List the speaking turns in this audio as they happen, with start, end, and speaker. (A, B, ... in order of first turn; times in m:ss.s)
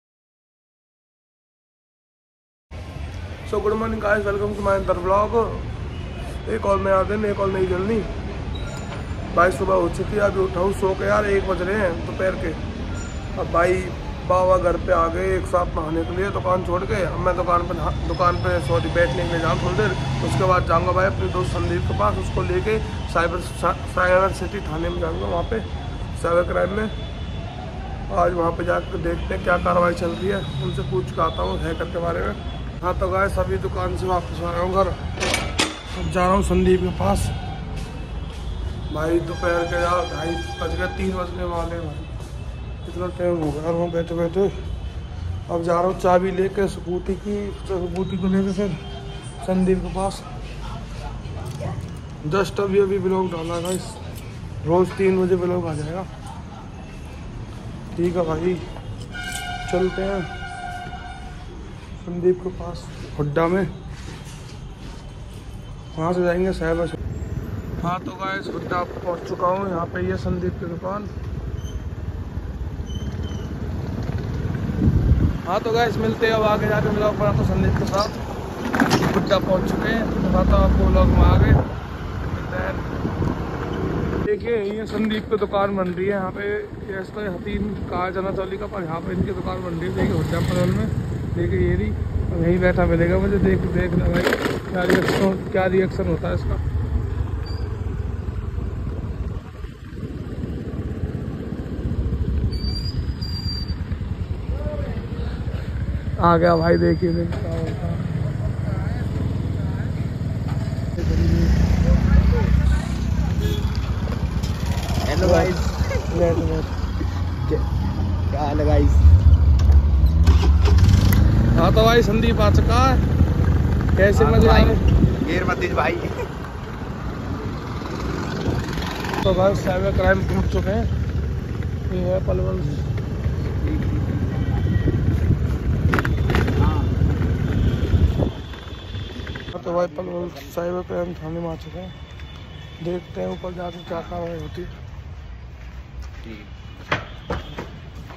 0:03.5-0:05.7 A
0:06.4-0:08.1 A
0:09.3-0:12.6 A
0:13.4-0:26.9 A
0:28.1-0:35.0 A
0:35.9-0:37.3 A
0:38.9-0:42.1 A
0:42.8-0:44.6 A
0:45.5-0:48.8 A
0:49.4-0:50.3 A
0:52.2-0:54.0 A
0:54.6-0:56.1 A
0:57.9-0:58.6 A
0:59.7-1:00.3 A
1:02.0-1:03.7 A
1:05.9-1:07.0 A
1:07.8-1:11.1 A
1:15.4-1:18.2 A
1:19.0-1:21.6 A
1:22.3-1:22.8 A
1:24.2-1:36.6 A
1:46.2-1:48.1 A
1:50.9-1:51.6 A
1:55.0-1:55.8 B
1:55.2-1:56.7 A
1:57.4-1:59.0 B
2:01.5-2:03.0 A
2:04.0-2:04.8 A
2:04.1-2:06.2 B
2:09.2-2:10.9 A
2:11.9-2:12.8 A
2:13.5-2:14.9 B
2:16.5-2:17.1 B
2:19.4-2:20.6 B
2:19.5-2:22.0 A
2:22.8-2:24.7 A
2:23.9-2:24.3 B
2:26.2-2:26.5 B